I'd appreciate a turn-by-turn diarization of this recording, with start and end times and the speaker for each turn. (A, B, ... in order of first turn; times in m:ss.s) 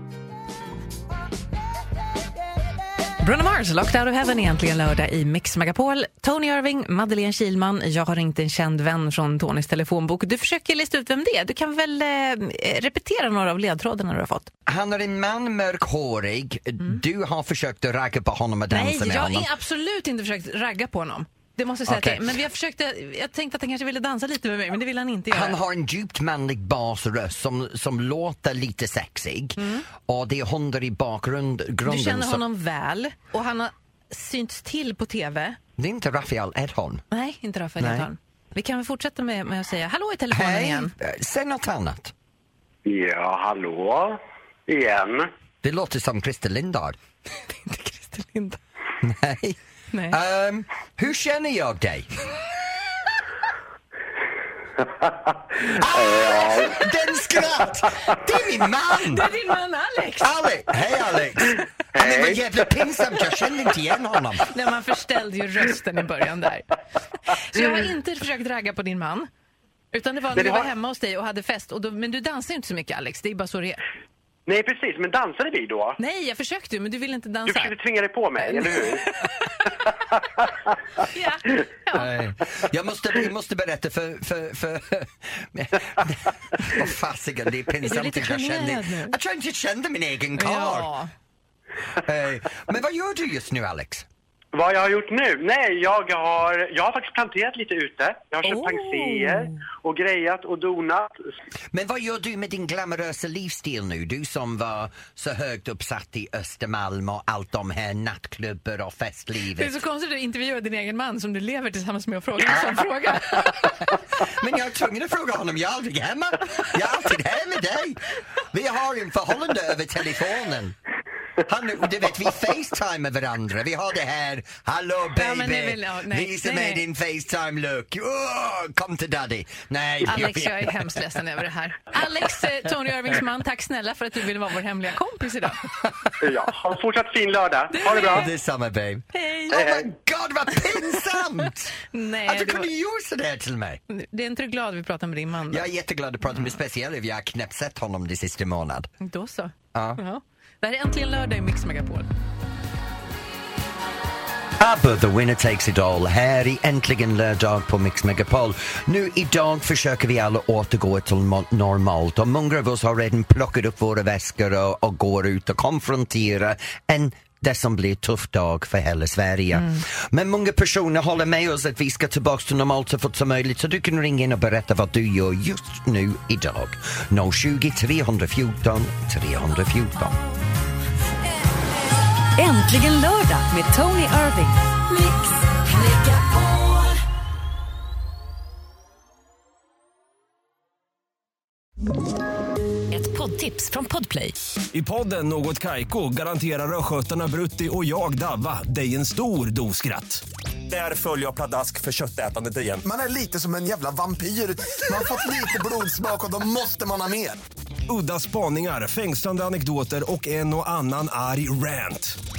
0:03.2-0:14.5 A
0:14.7-0:19.5 B
0:18.7-0:25.6 A
0:21.9-0:22.3 B
0:25.3-0:32.4 B
0:29.6-0:29.8 A
0:31.8-0:35.6 A
0:35.8-0:37.0 B
0:37.1-0:40.9 A
0:37.8-0:38.1 B
0:40.3-0:42.1 B
0:42.8-0:44.1 C
0:44.7-0:45.3 C
0:45.6-0:47.0 B
0:47.5-0:48.6 A
0:49.0-0:49.6 B
0:49.9-0:50.2 A
0:50.1-0:52.1 B
0:55.7-0:59.3 B
0:55.7-0:56.7 C
0:59.0-1:00.9 A
1:00.2-1:04.5 B
1:02.0-1:02.4 C
1:04.4-1:06.7 A
1:07.2-1:09.3 A
1:09.9-1:13.8 A
1:10.3-1:10.7 C
1:14.5-1:16.0 C
1:16.0-1:17.7 A
1:17.5-1:19.0 C
1:18.4-1:19.9 A
1:21.0-1:22.1 A
1:21.9-1:30.9 B
1:27.8-1:29.2 A
1:30.4-1:31.1 A
1:32.0-1:34.0 B
1:34.5-1:41.1 C
1:38.4-1:39.6 A
1:41.7-1:49.8 B
1:49.5-1:53.6 A
1:52.5-2:00.8 B
2:01.4-2:11.0 B
2:05.1-2:06.8 A
2:10.1-2:15.6 A
2:16.2-2:18.3 C
2:17.7-2:18.3 A
2:17.8-2:23.8 B
2:19.1-2:19.6 A
2:19.5-2:19.9 C
2:21.8-2:22.7 A
2:23.9-2:25.7 A
2:25.5-2:28.9 B
2:29.0-2:32.1 A
2:29.7-2:30.0 B
2:34.6-3:00.2 B
3:02.4-3:04.5 D
3:12.9-3:14.2 D
3:14.7-3:22.8 E
3:22.8-3:27.4 F
3:27.9-3:32.2 E